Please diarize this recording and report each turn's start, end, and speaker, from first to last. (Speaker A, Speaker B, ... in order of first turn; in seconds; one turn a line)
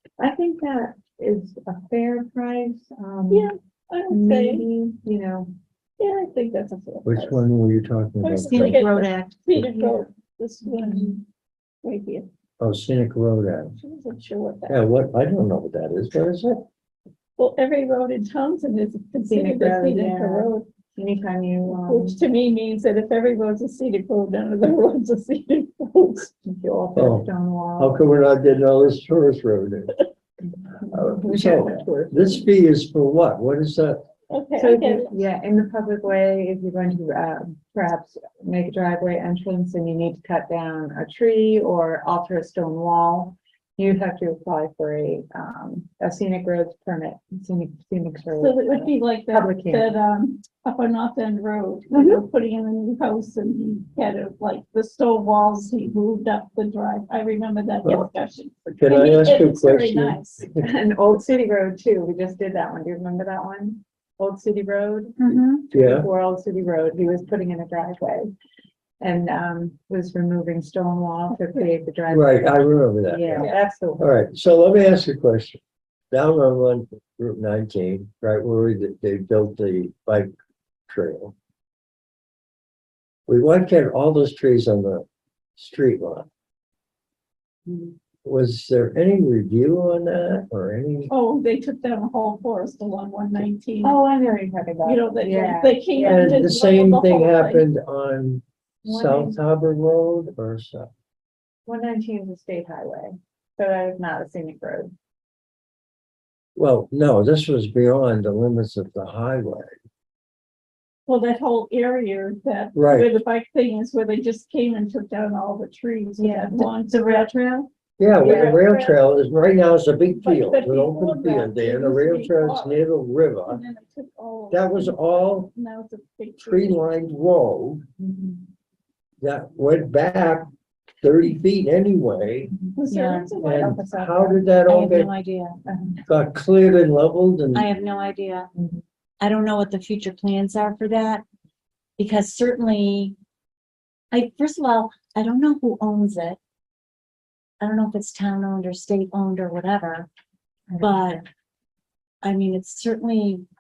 Speaker A: 0.2-3.5
Speaker B: 3.3-4.7
Speaker A: 4.1-5.5
Speaker B: 6.0-7.5
Speaker C: 7.1-8.9
Speaker B: 8.2-11.2
Speaker D: 8.4-9.4
Speaker A: 9.6-10.0
Speaker B: 11.8-12.3
Speaker C: 12.6-13.8
Speaker B: 13.8-14.8
Speaker C: 14.7-16.6
Speaker B: 17.4-20.7
Speaker A: 19.2-22.2
Speaker B: 21.7-26.3
Speaker A: 26.4-28.0
Speaker C: 27.0-30.0
Speaker A: 30.7-32.5
Speaker C: 30.9-34.1
Speaker B: 34.3-35.2
Speaker A: 34.6-49.9
Speaker B: 48.4-60.5
Speaker C: 58.7-60.7
Speaker A: 60.6-68.3
Speaker D: 65.2-65.7
Speaker C: 65.7-66.1
Speaker A: 69.0-74.1
Speaker C: 72.1-75.6
Speaker C: 76.1-80.3
Speaker C: 80.9-81.3
Speaker C: 83.3-85.0
Speaker C: 85.6-86.3
Speaker C: 88.2-91.1
Speaker B: 91.1-94.0
Speaker A: 93.8-96.4
Speaker B: 94.8-97.7
Speaker C: 96.0-100.9
Speaker A: 98.9-99.4
Speaker A: 101.7-104.9
Speaker C: 106.6-109.7
Speaker B: 111.1-117.3
Speaker C: 112.8-113.1
Speaker D: 116.2-117.7
Speaker C: 118.0-123.6
Speaker B: 118.2-119.0
Speaker B: 120.2-122.9
Speaker B: 123.5-126.8
Speaker C: 124.5-125.5
Speaker C: 126.4-127.8
Speaker A: 128.0-128.4
Speaker C: 129.2-130.5
Speaker C: 131.0-132.6
Speaker B: 132.8-133.8
Speaker A: 132.9-134.5
Speaker D: 132.9-133.3
Speaker C: 133.4-135.1
Speaker D: 134.7-135.6
Speaker A: 135.7-136.0
Speaker C: 136.1-137.7
Speaker D: 137.5-138.5
Speaker D: 139.2-141.2
Speaker D: 142.0-143.2
Speaker D: 144.1-146.4
Speaker D: 147.6-150.1
Speaker A: 150.7-151.2
Speaker D: 150.8-151.2
Speaker D: 152.2-153.5